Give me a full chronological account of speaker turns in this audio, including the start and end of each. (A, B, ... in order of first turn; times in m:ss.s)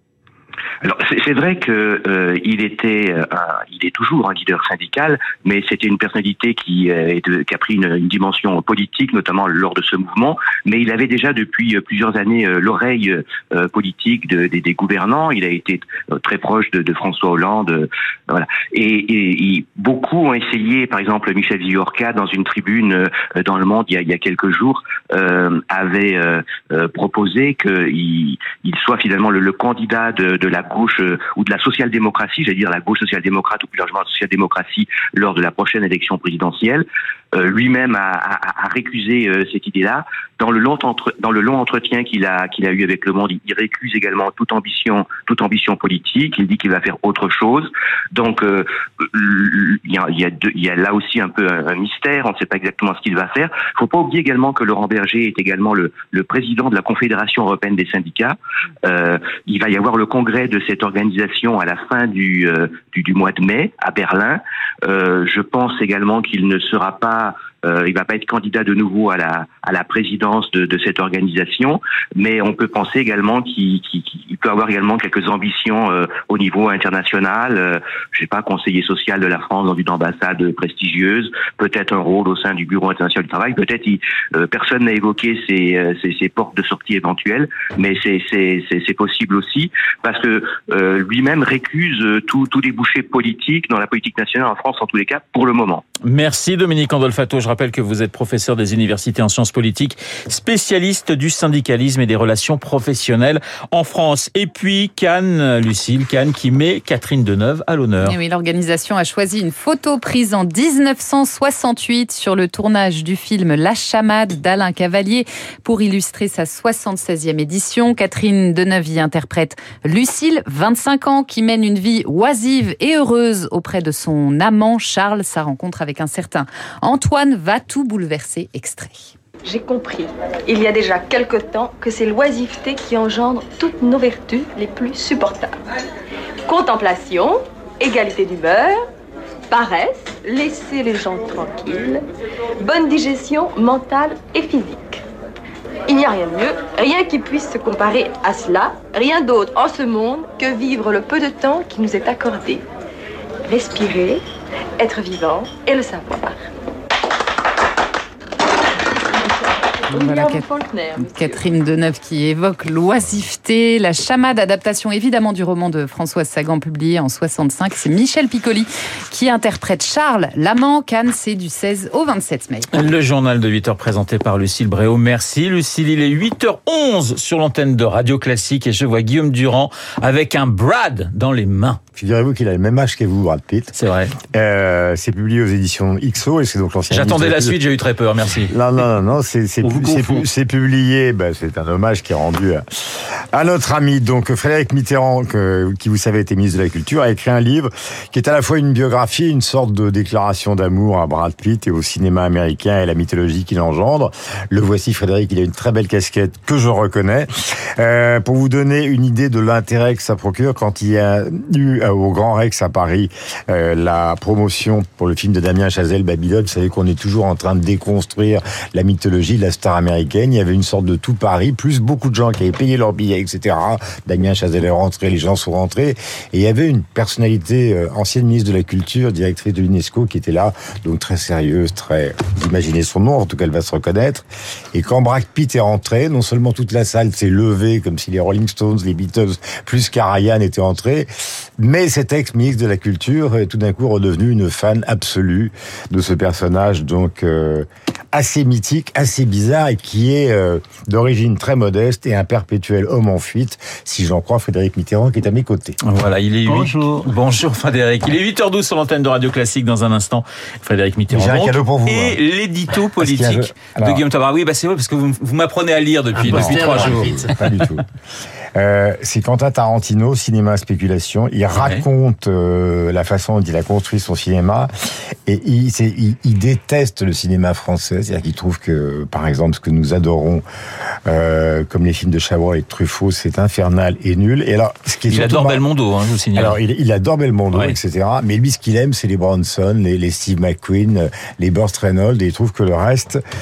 0:00.8-1:35.8 A
1:36.0-1:48.2 B
1:48.0-2:09.1 C
2:09.4-2:15.6 D
2:16.5-2:18.8 D
2:19.5-2:22.0 D
2:22.6-2:25.0 D
2:25.9-2:32.6 D
2:33.4-2:34.2 D
2:34.8-2:36.4 D
2:39.2-2:41.4 D
2:39.9-2:52.7 C
2:52.7-3:01.8 B
3:02.0-3:03.7 E
3:03.8-3:04.1 B
3:04.3-3:07.6 E
3:06.9-3:08.6 B
3:08.5-3:12.6 E
3:09.6-3:10.2 B
3:13.3-4:01.1 E
4:01.6-4:15.8 E
4:15.8-4:27.3 B
4:21.1-4:22.2 E
4:23.0-4:24.0 E
4:26.2-4:27.8 E
4:28.6-4:34.7 E
4:31.5-4:31.8 B
4:35.3-4:40.4 E
4:41.1-4:45.6 E
4:45.1-4:46.6 B
4:46.3-4:53.2 E